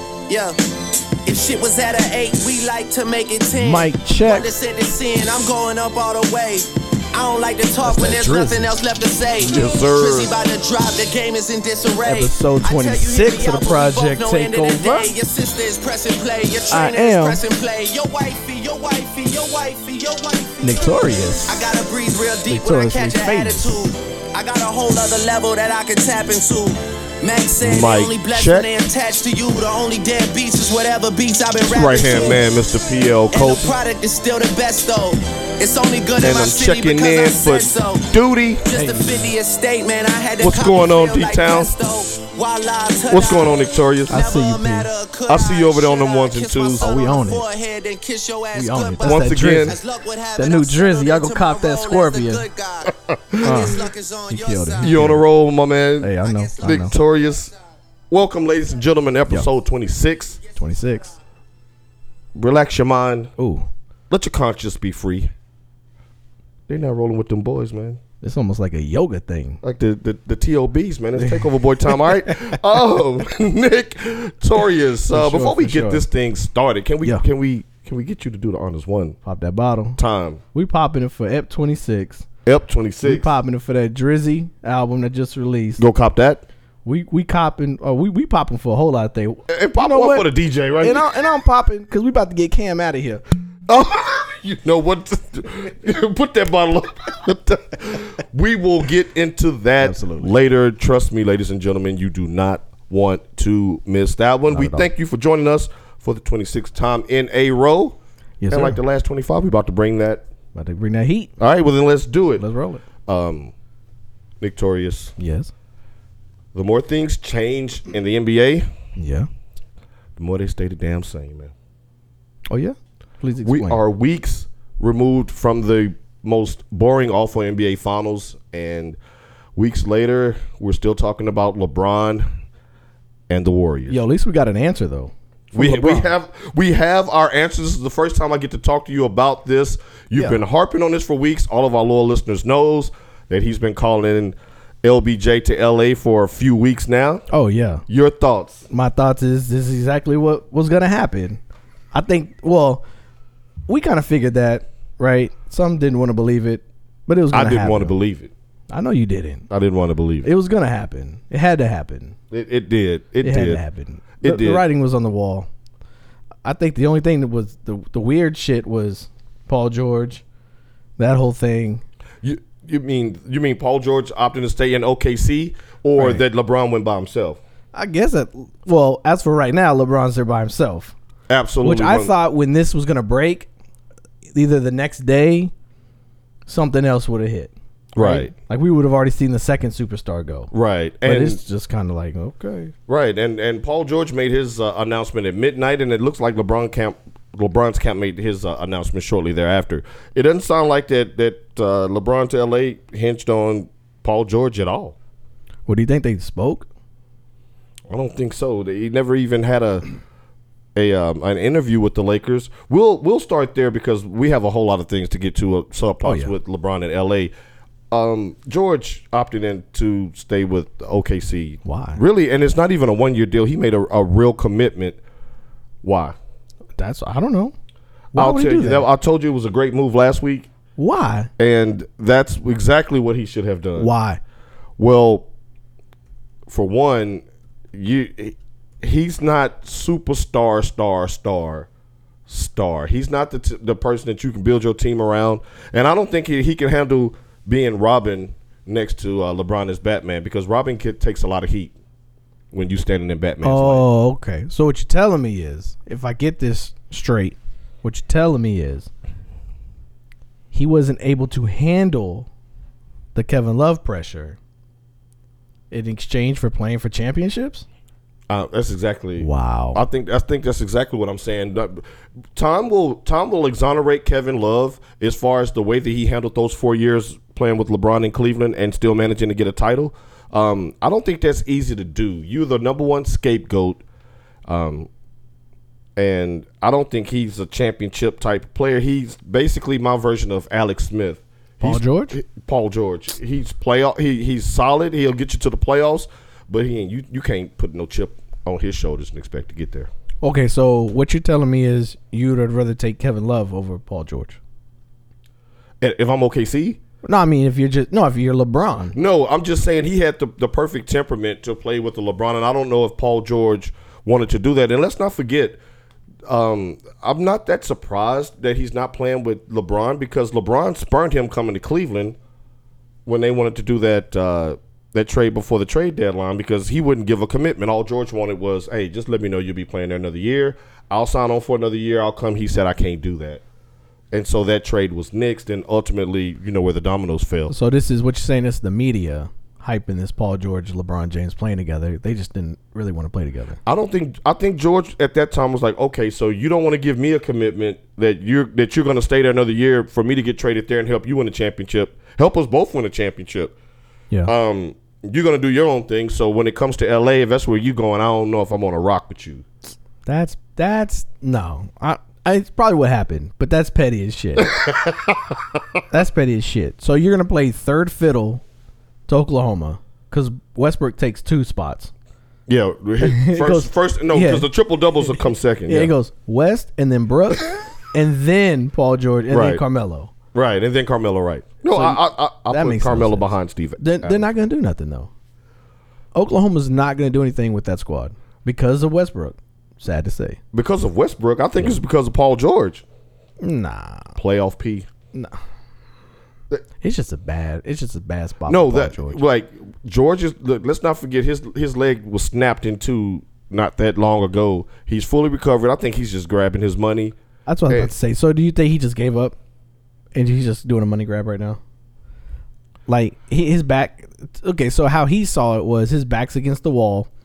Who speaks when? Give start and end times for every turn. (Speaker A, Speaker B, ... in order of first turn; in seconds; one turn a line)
Speaker A: 0.3-0.6
Speaker A: 1.2-32.4
Speaker B: 3.5-4.5
Speaker B: 7.8-8.7
Speaker C: 9.4-10.3
Speaker B: 12.0-15.1
Speaker B: 16.7-17.4
Speaker B: 20.6-21.6
Speaker B: 22.5-23.8
Speaker C: 27.6-28.7
Speaker C: 31.7-33.7
Speaker A: 33.3-38.1
Speaker C: 36.2-38.6
Speaker A: 38.6-55.0
Speaker B: 38.7-39.3
Speaker C: 40.4-41.7
Speaker C: 43.1-44.1
Speaker B: 44.1-44.9
Speaker C: 45.3-46.9
Speaker B: 46.8-47.5
Speaker B: 48.5-49.8
Speaker C: 49.0-49.8
Speaker B: 50.4-52.4
Speaker C: 52.9-53.8
Speaker B: 53.4-55.2
Speaker C: 54.8-57.5
Speaker B: 56.0-56.9
Speaker A: 56.2-56.9
Speaker C: 58.1-60.4
Speaker B: 60.5-61.1
Speaker C: 62.3-63.3
Speaker B: 63.4-63.7
Speaker C: 64.1-65.3
Speaker C: 66.7-68.0
Speaker B: 68.2-69.6
Speaker C: 69.6-79.2
Speaker B: 71.2-72.3
Speaker B: 75.1-76.0
Speaker B: 79.2-80.0
Speaker C: 80.0-80.4
Speaker B: 80.5-82.2
Speaker C: 82.5-83.3
Speaker B: 83.0-85.8
Speaker C: 85.8-86.4
Speaker B: 86.8-93.2
Speaker C: 89.5-91.1
Speaker C: 93.7-108.0
Speaker B: 99.8-100.3
Speaker B: 104.5-104.9
Speaker B: 108.4-108.8
Speaker C: 108.5-110.2
Speaker B: 110.5-111.3
Speaker C: 111.4-112.4
Speaker B: 112.4-112.8
Speaker C: 113.0-113.5
Speaker C: 114.4-115.1
Speaker B: 115.2-115.5
Speaker C: 116.5-118.7
Speaker B: 119.0-119.3
Speaker C: 120.2-121.5
Speaker B: 122.5-123.8
Speaker C: 123.4-129.0
Speaker C: 129.6-132.2
Speaker C: 133.3-134.0
Speaker B: 133.9-136.1
Speaker C: 135.5-147.2
Speaker B: 147.3-147.8
Speaker C: 147.9-148.7
Speaker B: 148.7-151.4
Speaker B: 151.9-152.8
Speaker B: 153.7-158.0
Speaker C: 157.3-158.3
Speaker B: 158.7-159.5
Speaker C: 159.5-160.3
Speaker B: 160.2-162.2
Speaker C: 162.3-163.6
Speaker B: 163.2-165.5
Speaker C: 164.2-164.6
Speaker B: 166.4-170.2
Speaker B: 171.0-171.8
Speaker C: 172.2-177.4
Speaker B: 175.9-176.2
Speaker B: 177.7-180.9
Speaker C: 181.3-182.1
Speaker B: 181.6-183.5
Speaker B: 184.3-185.5
Speaker B: 186.5-190.5
Speaker C: 187.9-188.3
Speaker C: 190.5-191.4
Speaker B: 191.0-192.7
Speaker C: 192.9-204.9
Speaker B: 205.7-206.7
Speaker C: 207.9-209.8
Speaker C: 210.7-217.3
Speaker B: 216.0-216.3
Speaker C: 217.9-225.0
Speaker B: 221.6-222.0
Speaker C: 225.8-226.2
Speaker B: 226.8-227.5
Speaker B: 228.1-228.8
Speaker C: 228.1-230.5
Speaker B: 230.8-231.3
Speaker C: 231.4-233.9
Speaker B: 233.8-234.2
Speaker C: 234.8-235.2
Speaker C: 236.5-241.7
Speaker C: 242.3-251.7
Speaker C: 252.5-253.8
Speaker B: 253.4-258.9
Speaker B: 260.5-262.3
Speaker B: 263.1-264.4
Speaker B: 265.7-267.6
Speaker C: 268.3-271.8
Speaker B: 269.2-269.8
Speaker C: 272.3-283.8
Speaker C: 284.5-284.9
Speaker C: 285.9-299.9
Speaker B: 291.6-292.2
Speaker B: 300.2-304.4
Speaker C: 305.8-306.8
Speaker B: 307.0-308.9
Speaker C: 308.9-315.6
Speaker C: 316.2-322.1
Speaker C: 323.1-333.4
Speaker C: 334.1-337.5
Speaker B: 337.5-343.6
Speaker C: 343.6-353.5
Speaker C: 354.2-359.4
Speaker B: 360.1-364.6
Speaker C: 364.4-365.6
Speaker B: 365.9-368.4
Speaker B: 369.1-371.9
Speaker C: 372.5-375.9
Speaker B: 373.0-374.5
Speaker B: 375.7-380.1
Speaker C: 379.3-379.6
Speaker C: 380.3-384.2
Speaker B: 381.7-385.1
Speaker B: 386.1-390.4
Speaker C: 390.5-392.8
Speaker B: 393.4-394.1
Speaker C: 394.1-394.9
Speaker B: 396.8-399.2
Speaker C: 398.4-407.1
Speaker B: 407.4-409.4
Speaker B: 410.1-411.6
Speaker B: 412.9-417.1